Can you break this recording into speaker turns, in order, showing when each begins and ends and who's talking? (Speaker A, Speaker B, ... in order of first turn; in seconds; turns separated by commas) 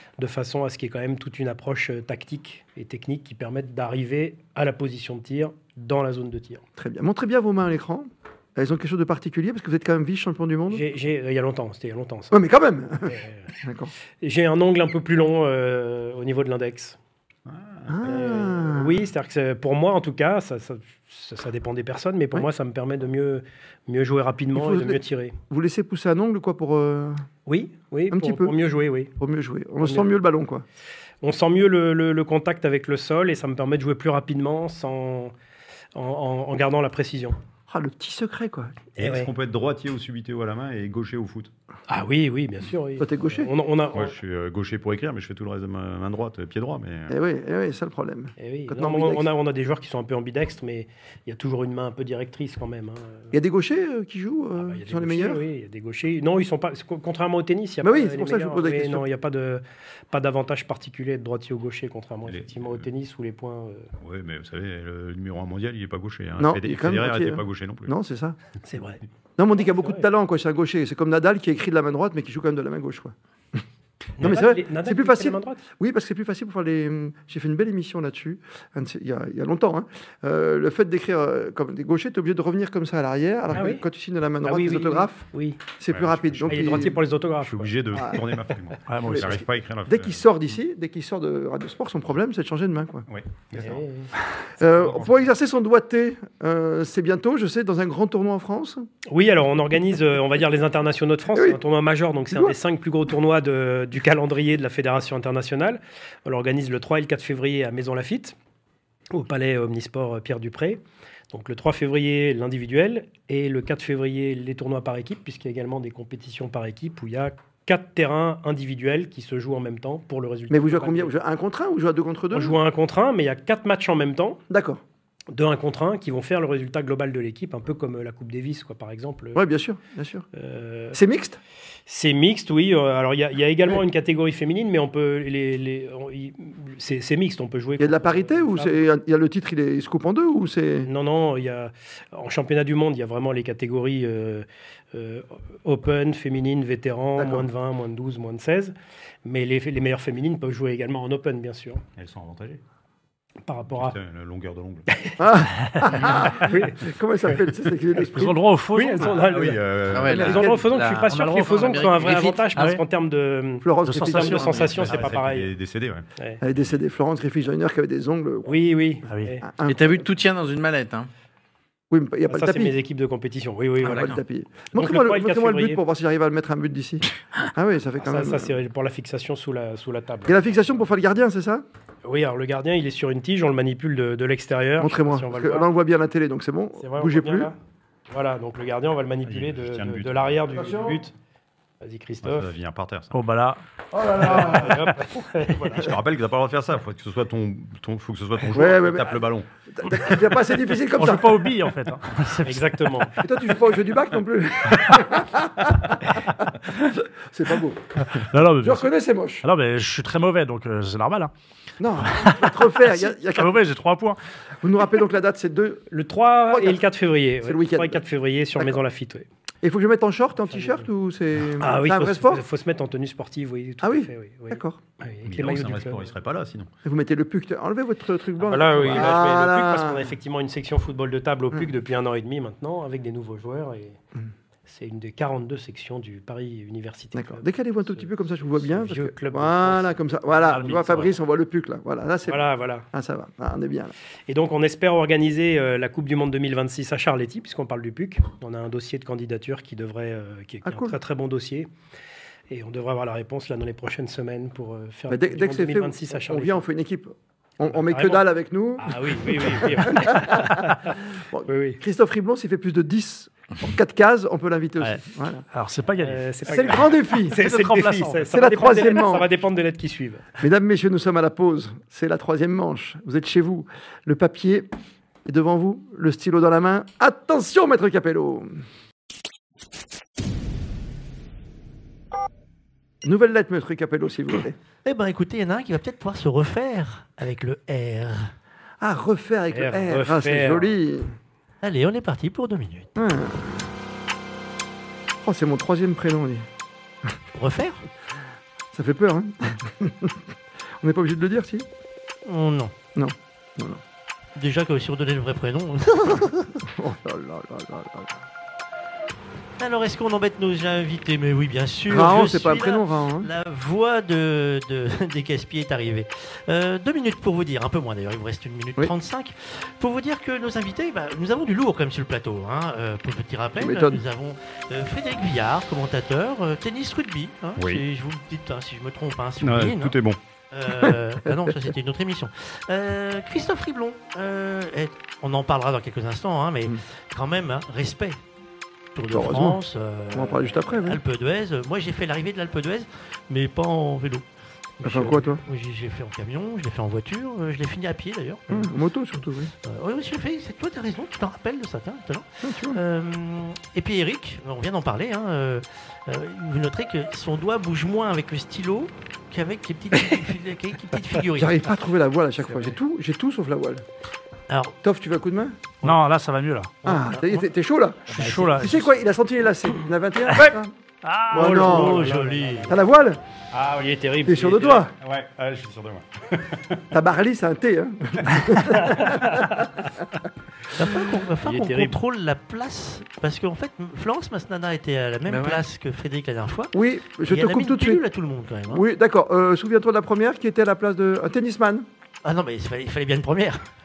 Speaker A: 0.2-6.6, Speaker B: 6.8-10.8, Speaker A: 10.7-12.4, Speaker B: 12.3-13.9, Speaker A: 13.1-13.4, Speaker A: 14.2-17.0, Speaker C: 17.5-18.1, Speaker B: 17.9-19.0, Speaker A: 18.0-25.4, Speaker B: 24.5-27.3, Speaker A: 27.5-29.1, Speaker B: 28.1-28.6, Speaker B: 29.2-30.6, Speaker A: 29.8-30.1, Speaker A: 31.2-35.3, Speaker A: 36.0-37.4, Speaker B: 37.7-38.8, Speaker A: 39.0-39.3, Speaker C: 39.0-41.5, Speaker A: 41.9-44.2, Speaker B: 43.0-43.5, Speaker C: 43.9-47.1, Speaker B: 47.1-49.3, Speaker A: 48.4-53.3, Speaker B: 53.3-55.4, Speaker A: 54.6-63.9, Speaker B: 57.8-59.0, Speaker C: 62.3-62.9, Speaker C: 64.0-67.9, Speaker B: 66.4-68.4, Speaker A: 68.6-69.0, Speaker B: 69.4-73.6, Speaker A: 69.6-70.1, Speaker A: 74.2-75.7, Speaker B: 74.2-85.2, Speaker A: 83.5-83.8, Speaker A: 84.4-85.8, Speaker B: 85.8-87.0, Speaker C: 85.9-86.9, Speaker A: 86.5-88.2, Speaker C: 87.4-90.2, Speaker B: 87.9-88.2, Speaker D: 88.9-89.4, Speaker B: 89.1-93.1, Speaker C: 93.1-94.5, Speaker A: 93.6-94.1, Speaker B: 94.6-98.9, Speaker A: 99.1-108.4, Speaker B: 101.3-101.6, Speaker B: 102.3-102.6, Speaker A: 109.1-121.1, Speaker B: 120.5-122.6, Speaker A: 122.3-124.4, Speaker B: 124.5-124.8, Speaker A: 125.3-129.4, Speaker B: 129.3-130.3, Speaker A: 130.3-131.0, Speaker B: 130.9-131.4, Speaker A: 131.9-138.8, Speaker B: 137.8-140.9, Speaker A: 140.8-151.8, Speaker B: 147.2-147.5, Speaker C: 152.0-152.6, Speaker A: 153.5-154.0, Speaker C: 153.7-154.8, Speaker A: 154.9-155.2, Speaker B: 155.2-158.4, Speaker A: 156.1-157.5, Speaker D: 158.1-159.2, Speaker A: 158.7-165.5, Speaker C: 159.2-160.4, Speaker E: 159.9-162.4, Speaker B: 160.1-160.7, Speaker D: 161.1-161.8, Speaker D: 162.6-162.8, Speaker B: 163.6-164.5, Speaker D: 163.8-165.1, Speaker C: 164.5-166.7, Speaker B: 166.4-168.6, Speaker A: 168.5-169.4, Speaker D: 169.1-169.3, Speaker B: 169.4-170.1, Speaker E: 169.7-171.1, Speaker B: 171.9-172.8, Speaker A: 172.3-174.2, Speaker E: 173.8-174.2, Speaker B: 173.8-178.5, Speaker A: 174.8-175.8, Speaker A: 178.0-180.5, Speaker B: 180.2-181.7, Speaker A: 182.0-185.7, Speaker B: 184.8-187.5, Speaker A: 186.8-187.6, Speaker A: 188.1-191.1, Speaker C: 189.2-190.4, Speaker B: 190.6-191.0, Speaker A: 191.8-192.6, Speaker C: 192.2-193.1, Speaker D: 193.1-193.6, Speaker B: 193.9-194.9, Speaker A: 194.2-195.9, Speaker C: 195.7-200.2, Speaker B: 198.5-201.5, Speaker D: 200.9-202.8, Speaker A: 202.4-203.2, Speaker B: 203.2-209.5, Speaker D: 208.1-208.9, Speaker D: 209.4-211.3, Speaker B: 211.8-213.6, Speaker D: 212.0-214.2, Speaker B: 214.6-215.9, Speaker A: 215.9-219.3, Speaker B: 216.5-216.8, Speaker B: 217.4-218.0, Speaker B: 219.6-222.4, Speaker A: 220.5-220.8, Speaker A: 221.6-226.1, Speaker B: 223.8-224.8, Speaker C: 225.2-226.7, Speaker B: 226.8-230.1, Speaker A: 228.4-234.0, Speaker A: 234.7-238.1, Speaker B: 237.1-243.9, Speaker A: 238.6-240.0, Speaker D: 240.5-241.1, Speaker A: 240.5-240.8, Speaker A: 242.3-242.9, Speaker A: 244.3-251.7, Speaker B: 250.7-251.0, Speaker A: 252.5-256.6, Speaker B: 255.1-265.5, Speaker A: 257.9-258.3, Speaker A: 258.8-261.8, Speaker D: 265.5-268.3, Speaker A: 266.0-270.3, Speaker B: 266.4-267.4, Speaker B: 268.3-269.3, Speaker B: 270.4-274.7, Speaker B: 275.2-278.6, Speaker B: 283.0-284.6, Speaker F: 284.9-288.3, Speaker B: 288.8-291.1, Speaker A: 289.5-290.7, Speaker F: 291.6-292.9, Speaker B: 293.0-293.7, Speaker B: 295.2-296.5, Speaker F: 297.4-297.9, Speaker B: 298.7-301.7, Speaker F: 302.2-302.7, Speaker B: 302.9-303.8, Speaker F: 304.4-306.6, Speaker B: 306.6-308.2, Speaker F: 309.6-330.0, Speaker B: 311.9-313.3, Speaker B: 323.6-324.0, Speaker C: 327.6-327.8, Speaker C: 329.4-330.2, Speaker F: 330.5-338.2, Speaker B: 330.7-331.7, Speaker F: 338.9-344.3, Speaker B: 339.1-339.6, Speaker B: 340.1-341.0, Speaker F: 344.8-348.7, Speaker B: 344.8-345.4, Speaker B: 348.5-349.5, Speaker F: 349.6-361.7, Speaker B: 352.4-352.8, Speaker B: 361.4-363.9, Speaker F: 364.5-364.8, Speaker B: 364.8-365.6, Speaker D: 365.8-366.8, Speaker F: 366.9-367.4, Speaker B: 366.9-370.7, Speaker D: 368.1-368.9, Speaker F: 368.1-368.7, Speaker D: 370.3-371.6, Speaker B: 371.3-372.1, Speaker F: 371.3-372.7, Speaker A: 371.3-372.8, Speaker B: 372.7-373.2, Speaker C: 373.5-374.1, Speaker A: 373.8-374.9, Speaker B: 374.2-374.9, Speaker C: 374.9-376.9, Speaker B: 376.9-379.7, Speaker F: 380.7-388.8, Speaker B: 380.8-381.2, Speaker A: 381.4-382.0, Speaker E: 385.3-385.6, Speaker B: 386.7-388.0, Speaker B: 388.7-391.9, Speaker F: 392.2-393.7